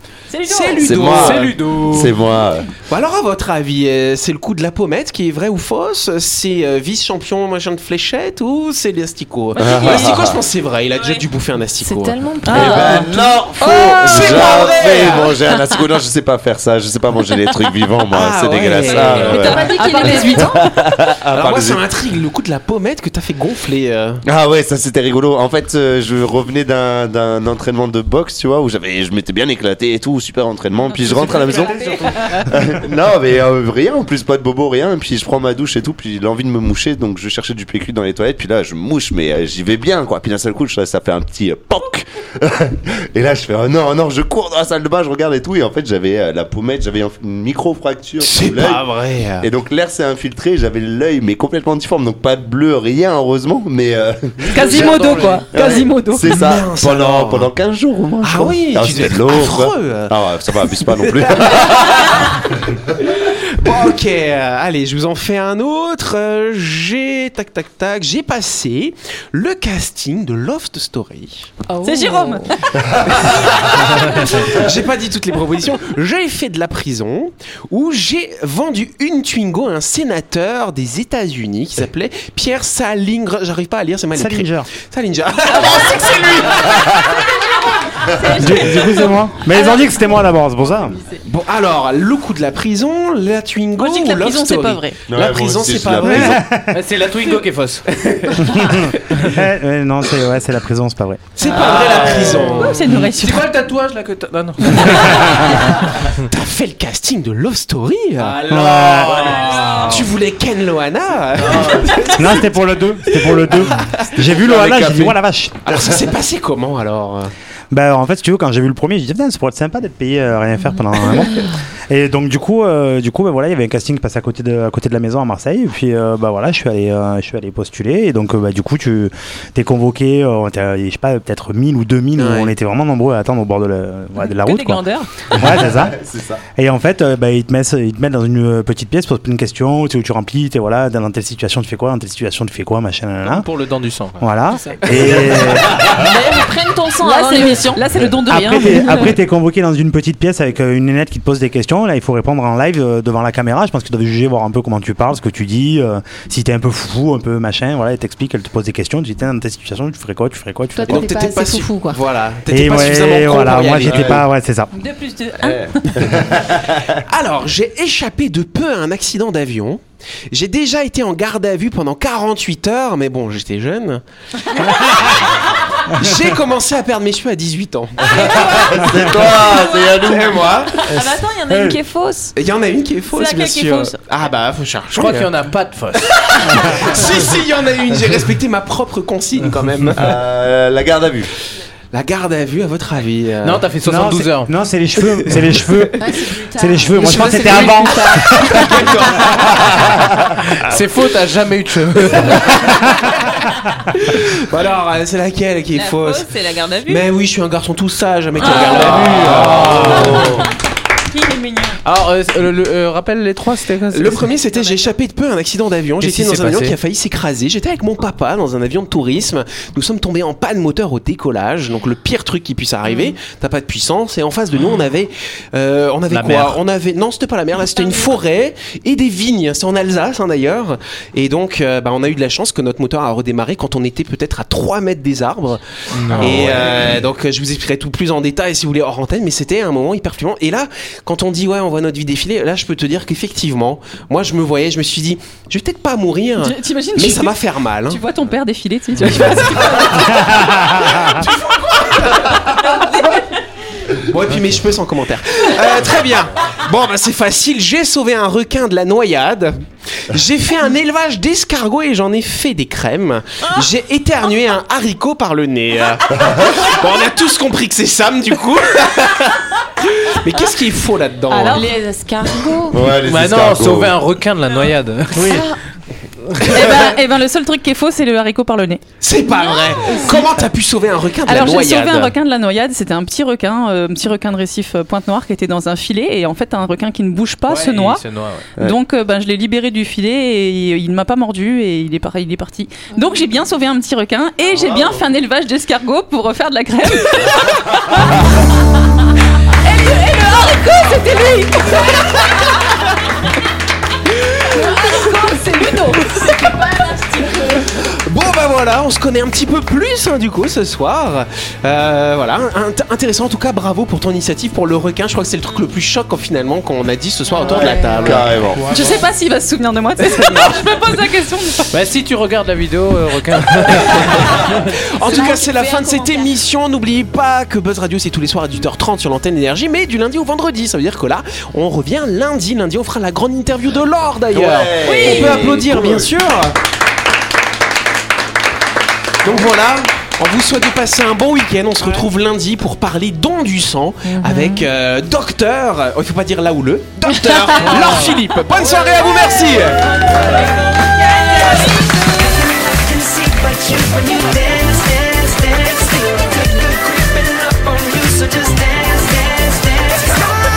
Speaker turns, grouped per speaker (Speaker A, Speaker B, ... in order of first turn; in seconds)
Speaker A: 0.3-1.1, 9.5-10.2, 12.4-13.1, 18.8-20.9, 54.5-56.3, 71.8-72.5, 93.8-95.0, 101.4-101.8, 102.4-103.5, 134.2-135.1, 147.0-149.2, 164.7-166.1, 183.1-184.0, 208.4-209.0, 211.1-211.8, 246.4-250.5, 252.6-253.0, 276.5-278.8, 281.2-288.0, 288.6-298.2, 299.6-302.4, 304.5-306.6, 318.7-321.7
Speaker B: 0.5-1.6, 2.9-12.2, 13.9-15.3, 18.1-19.5, 21.4-24.2, 48.2-49.5, 56.3-57.5, 58.2-71.5, 73.0-86.7, 91.2-96.4, 97.9-99.1, 101.3-102.9, 106.2-108.4, 109.6-112.5, 113.0-114.1, 115.7-117.3, 132.2-132.5, 160.9-164.1, 167.1-169.8, 170.3-174.0, 174.5-178.1, 180.0-180.8, 182.3-185.3, 186.0-190.2, 191.9-193.7, 195.0-195.8, 196.9-199.9, 200.6-200.9, 202.1-203.0, 203.9-206.3, 206.9-210.3, 213.9-235.6, 236.1-248.0, 249.1-252.8, 253.9-271.7, 276.5-276.9, 279.0-282.1, 304.1-304.6, 307.7-318.3, 325.0-336.6, 339.2-349.9
Speaker C: 0.8-2.7, 9.6-10.4, 12.5-21.8, 24.2-48.8, 49.4-55.0, 55.5-62.3, 85.9-87.2, 88.1-88.5, 95.1-96.4, 102.0-102.4, 111.4-112.1, 114.2-115.2, 135.4-136.4, 163.8-164.2, 165.4-167.0, 178.0-180.6, 189.9-191.3, 209.1-210.5, 236.2-236.7, 266.1-266.6, 272.7-274.0, 294.5-295.0, 318.0-318.6, 334.3-336.1
Speaker D: 1.0-2.1, 31.3-31.8, 54.4-55.5, 96.7-97.8, 101.4-105.7, 108.2-110.1, 143.2-145.1, 184.9-186.9, 193.4-194.5, 200.6-202.6, 208.5-210.3, 211.8-214.3, 216.0-216.8, 226.1-226.6, 235.9-236.9, 273.0-275.4, 287.5-288.5, 321.7-324.5
Speaker E: 10.9-11.2, 205.7-207.1, 214.5-214.9
Speaker F: 11.8-15.3, 19.1-20.7, 71.7-72.5, 74.0-74.4, 145.7-147.8, 160.8-162.0, 178.1-178.8, 179.3-179.9, 180.9-182.3, 196.0-199.6, 222.8-223.1, 271.3-272.9, 275.3-275.6, 279.4-280.2, 306.2-307.7, 317.3-318.1, 324.3-326.3, 344.1-344.7, 347.1-348.0, 350.1-350.7, 351.4-360.0
Speaker G: 31.6-32.8, 84.2-84.7, 88.2-91.0, 96.0-96.8, 98.4-101.2, 104.8-105.5, 108.5-109.3, 112.2-115.6, 117.7-134.8, 135.3-136.0, 136.6-143.5, 144.2-146.0, 148.2-161.2, 162.5-164.7, 174.8-175.2, 178.8-179.2, 180.9-181.8, 186.5-187.1, 193.8-196.0, 196.6-198.7, 250.2-251.2, 275.1-275.5, 318.1-319.1